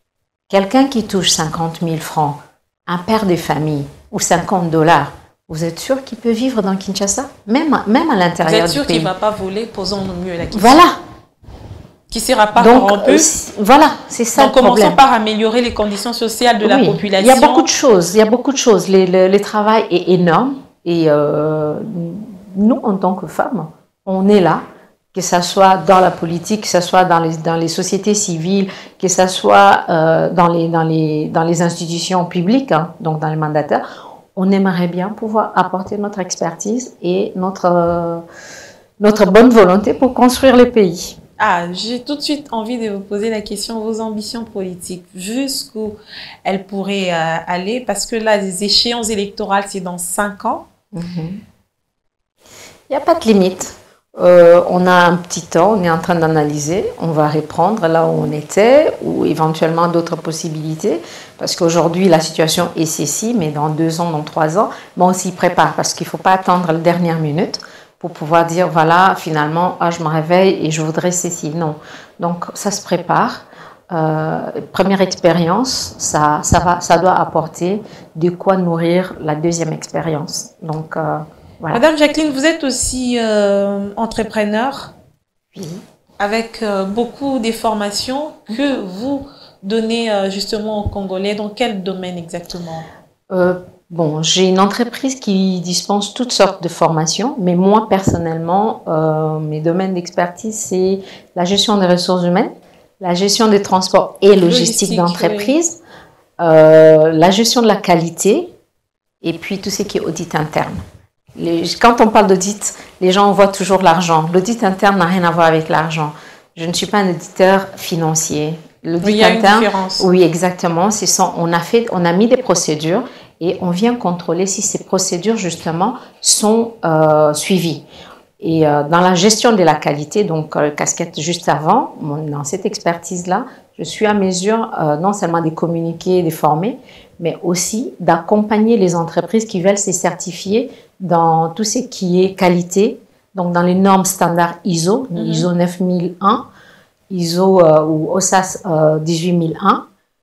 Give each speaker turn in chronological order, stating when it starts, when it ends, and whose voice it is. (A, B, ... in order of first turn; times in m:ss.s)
0:00.5-0:09.1 A
0:08.4-0:10.8 B
0:10.5-0:11.0 A
0:12.1-0:13.3 B
0:12.6-0:15.0 A
0:14.3-0:17.7 B
0:16.6-0:24.6 A
0:25.1-0:33.8 A
0:34.3-0:38.2 A
0:39.0-0:41.2 A
0:41.4-0:50.7 B
0:50.9-0:51.4 A
0:52.9-1:21.8 A
1:21.7-1:24.9 B
1:25.5-1:25.8 A
1:26.2-1:32.8 B
1:33.3-1:45.8 A
1:44.3-1:45.5 B
1:46.4-1:48.5 A
1:49.2-1:50.8 A
1:51.4-2:07.8 A
1:59.0-2:00.0 B
2:08.4-2:26.4 A
2:25.2-2:25.5 B
2:27.1-2:29.8 A